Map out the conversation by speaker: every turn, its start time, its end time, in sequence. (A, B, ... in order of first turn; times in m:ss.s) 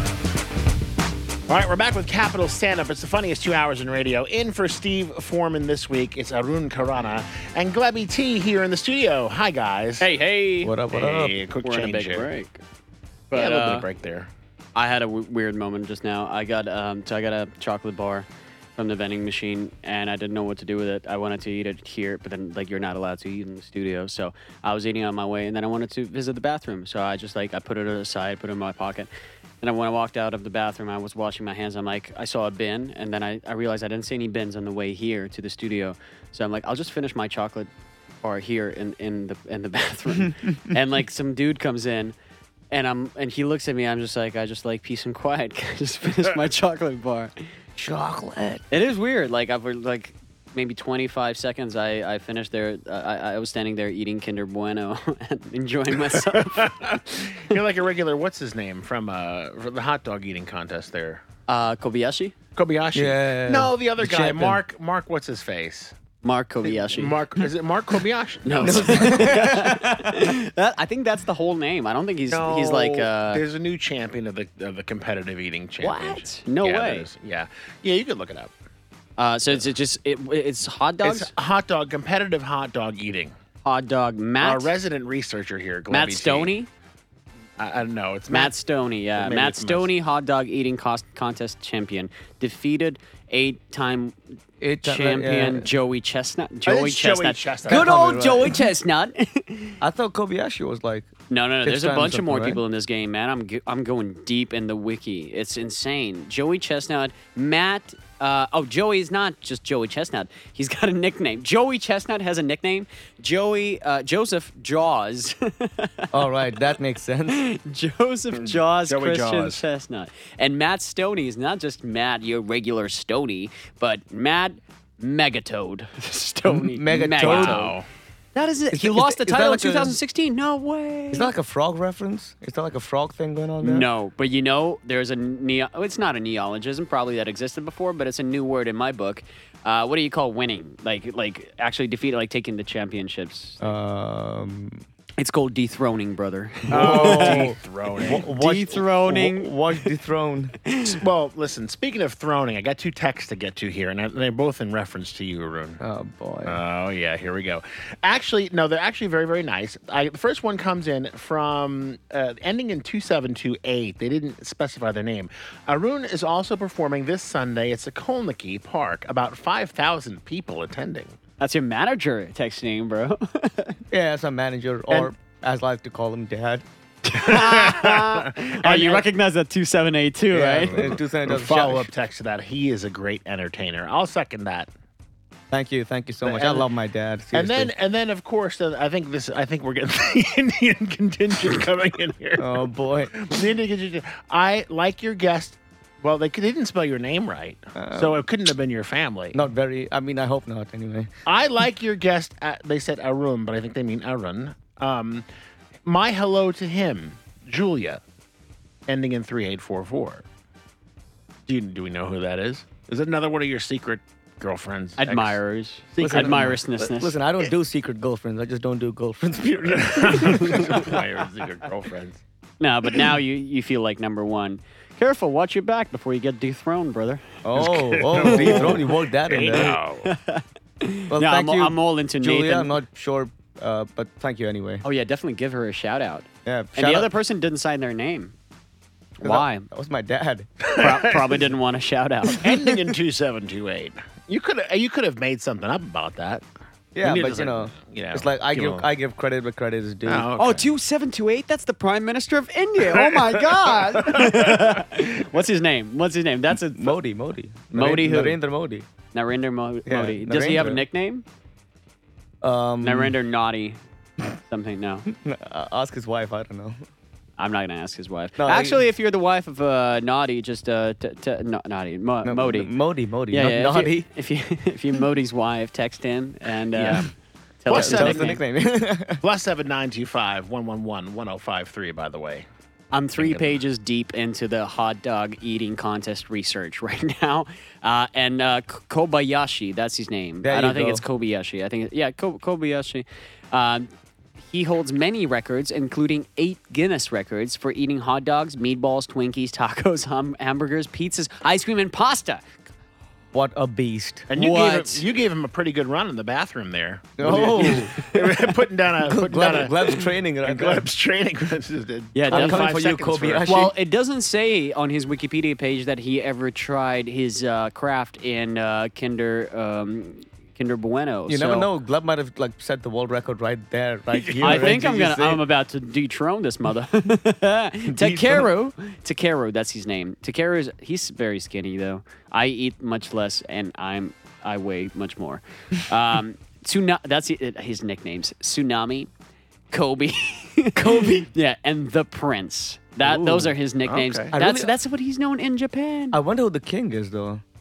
0:01.5-0:10.1 A
0:10.0-0:10.7 B
0:10.6-0:11.4 C
0:10.9-0:12.3 A
0:11.6-0:12.6 B
0:13.3-0:13.9 B
0:13.3-0:14.3 A
0:14.8-0:29.1 B
0:29.6-0:37.7 B
0:38.2-0:42.2 B
0:42.7-0:47.3 B
0:47.8-0:48.6 C
0:48.7-0:57.6 B
0:56.0-1:01.2 A
1:01.5-1:02.3 B
1:02.6-1:05.9 A
1:02.9-1:04.6 C
1:06.2-1:07.2 B
1:06.6-1:09.4 A
1:08.5-1:13.4 B
1:08.6-1:10.2 C
1:12.3-1:18.5 A
1:15.8-1:17.1 B
1:19.2-1:21.3 B
1:21.0-1:23.3 A
1:23.6-1:24.7 B
1:24.4-1:26.6 A
1:25.9-1:26.7 B
1:27.6-1:28.6 A
1:28.3-1:34.2 B
1:29.2-1:29.9 A
1:34.6-1:35.7 C
1:34.8-1:39.8 B
1:36.7-1:37.9 A
1:37.7-1:38.6 C
1:39.8-1:41.1 C
1:41.3-1:56.6 B
1:41.6-1:42.6 C
1:56.1-1:57.4 C
1:57.3-2:07.8 B
1:58.3-1:59.6 A
2:06.5-2:07.6 C
2:07.2-2:07.9 A
2:08.3-2:11.3 B
2:08.7-2:10.0 C
2:11.1-2:13.9 C
2:13.6-2:23.6 B
2:23.6-2:24.8 C
2:25.2-2:27.5 B
2:26.7-2:28.3 A
2:26.7-2:30.6 C
2:28.0-2:29.9 B
2:30.8-2:35.8 A
2:35.8-2:36.6 C
2:36.4-2:51.2 A
2:51.4-2:53.8 B
2:53.9-2:56.6 C
2:57.1-3:00.9 B
2:57.1-2:59.1 A
3:00.3-3:01.9 C
3:00.6-3:04.7 A
3:05.5-3:07.7 C
3:06.2-3:06.7 A
3:07.3-3:19.4 A
3:12.4-3:13.1 C
3:17.8-3:18.2 C
3:19.3-3:21.1 C
3:21.3-3:25.3 A
3:25.8-3:28.0 A
3:28.9-3:30.2 A
3:31.5-3:35.4 A
3:35.0-3:37.2 B
3:36.0-3:36.6 A
3:36.0-3:41.0 C
3:39.7-3:42.2 A
3:40.4-3:40.7 B
3:42.6-3:47.2 B
3:47.4-3:49.8 C
3:47.6-3:50.1 A
3:48.3-3:48.8 B
3:49.6-3:52.8 B
3:51.1-3:54.8 C
3:54.8-3:58.4 B
3:56.5-3:57.1 C
3:59.2-3:59.7 B
3:59.2-4:01.2 C
4:00.8-4:02.6 B
4:02.3-4:06.5 A
4:06.9-4:10.3 C
4:07.0-4:08.9 A
4:10.0-4:10.7 A
4:10.4-4:17.0 B
4:12.8-4:14.8 A
4:16.7-4:18.9 C
4:17.7-4:18.4 B
4:19.1-4:21.2 B
4:19.9-4:20.8 C
4:22.4-4:23.2 C
4:22.8-4:23.8 B
4:24.3-4:25.1 B
4:25.1-4:26.8 C
4:27.4-4:32.7 B
4:28.4-4:28.8 C
4:32.2-4:34.1 C
4:33.3-4:37.1 B
4:36.7-4:37.1 A
4:37.6-4:38.4 B
4:37.7-4:39.2 C
4:37.7-4:38.4 A
4:39.2-4:42.5 A
4:42.9-5:02.4 B
4:43.2-4:43.6 A
4:50.4-4:51.0 C
5:03.3-5:04.3 C
5:04.3-5:13.7 A
5:04.4-5:05.0 B
5:07.2-5:07.9 C
5:07.2-5:08.3 B
5:09.0-5:10.9 C
5:12.1-5:12.8 B
5:12.3-5:13.7 C
5:13.4-5:21.7 B
5:21.3-5:25.4 C
5:24.2-5:24.8 A
5:24.4-5:39.1 B
5:27.9-5:28.5 C
5:39.7-5:46.2 B
5:40.8-5:41.3 C
5:43.0-5:43.5 C
5:43.9-5:44.3 A
5:44.3-5:44.7 C
5:46.1-5:47.4 C